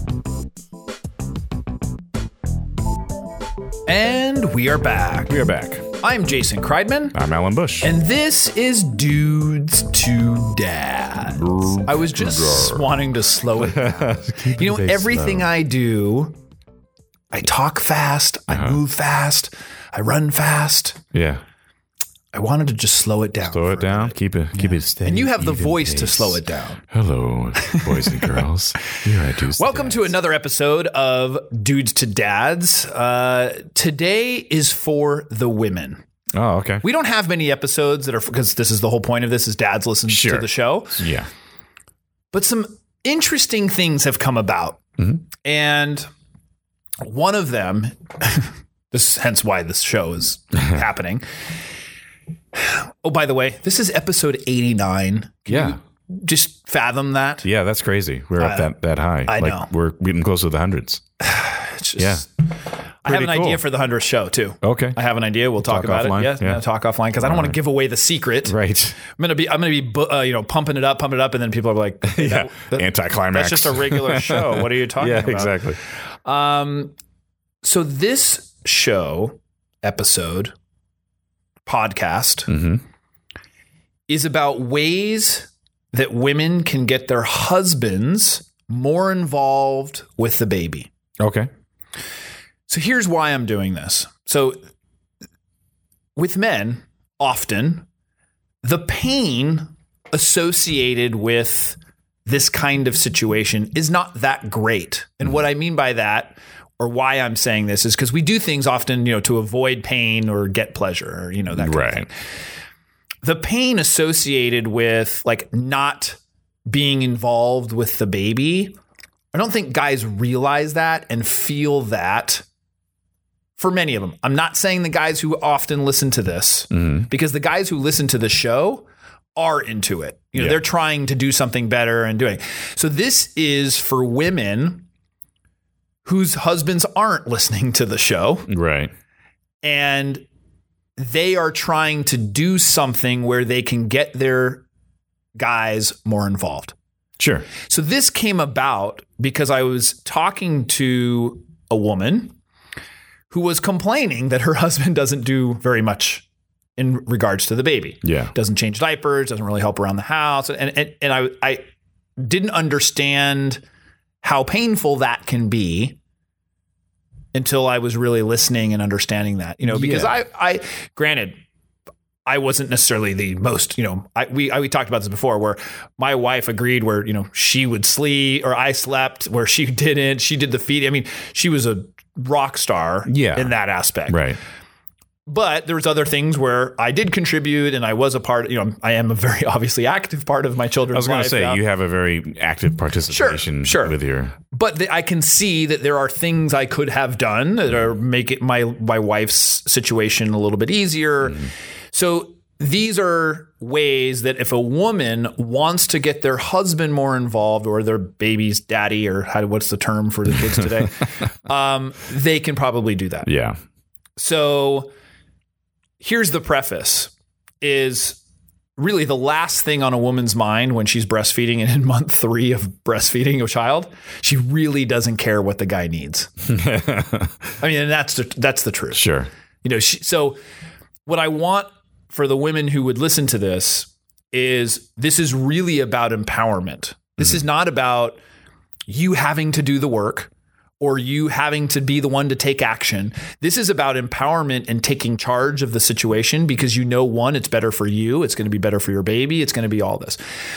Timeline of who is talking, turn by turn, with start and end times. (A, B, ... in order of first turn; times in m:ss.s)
0:03.9-0:05.4 A
0:05.3-0:05.9 B
0:06.0-0:07.2 A
0:07.1-0:07.9 B
0:07.8-0:16.4 A
0:11.4-0:12.9 B
0:13.6-0:15.5 B
0:17.3-0:21.0 A
0:18.5-0:18.8 B
0:21.1-0:21.4 B
0:22.3-0:26.8 A
0:23.5-0:26.4 B
0:26.9-0:30.1 B
0:27.6-0:29.0 A
0:29.5-0:36.0 A
0:36.3-0:36.8 B
0:36.8-0:41.1 A
0:40.1-0:41.3 B
0:42.3-0:46.1 A
0:47.0-0:51.2 A
0:52.5-0:57.5 A
0:55.5-0:55.8 B
0:57.4-1:01.0 B
0:58.4-0:58.7 A
0:59.3-0:59.7 A
1:01.2-1:02.3 A
1:02.0-1:02.3 B
1:03.0-1:16.9 A
1:03.1-1:03.6 B
1:04.6-1:05.0 B
1:05.6-1:06.6 B
1:07.2-1:07.6 B
1:08.5-1:09.0 B
1:12.1-1:15.8 B
1:17.6-1:20.5 A
1:21.7-1:22.5 A
1:22.5-1:22.8 B
1:24.1-1:30.9 A
1:31.2-1:31.5 B
1:32.7-1:34.6 A
1:36.2-1:37.9 A
1:38.6-1:52.1 A
1:51.6-1:52.1 B
1:53.2-1:58.8 A
1:59.3-2:02.4 A
2:03.6-2:08.8 A
2:06.7-2:07.1 B
2:09.4-2:14.8 A
2:16.0-2:18.5 A
2:18.5-2:18.9 B
2:19.6-2:20.2 A
2:21.0-2:24.6 A
2:25.4-2:26.8 A
2:27.2-2:27.5 B
2:27.7-2:32.4 A
2:33.3-2:36.3 A
2:36.8-2:41.6 A
2:38.0-2:38.3 B
2:42.2-2:43.6 A
2:44.2-2:46.0 A
2:47.3-2:51.4 A
2:49.7-2:50.2 B
2:52.3-3:04.3 A
3:03.1-3:03.5 B
3:04.1-3:04.4 B
3:05.3-3:11.6 A
3:10.9-3:14.3 B
3:13.1-3:33.3 A
3:33.2-3:33.6 B
3:34.2-3:34.9 A
3:36.0-3:38.2 A
3:38.8-3:46.3 A
3:46.5-3:47.4 B
3:47.6-3:49.1 A
3:49.0-3:49.3 B
3:49.6-3:50.4 A
3:51.1-3:58.2 A
3:58.9-4:10.2 A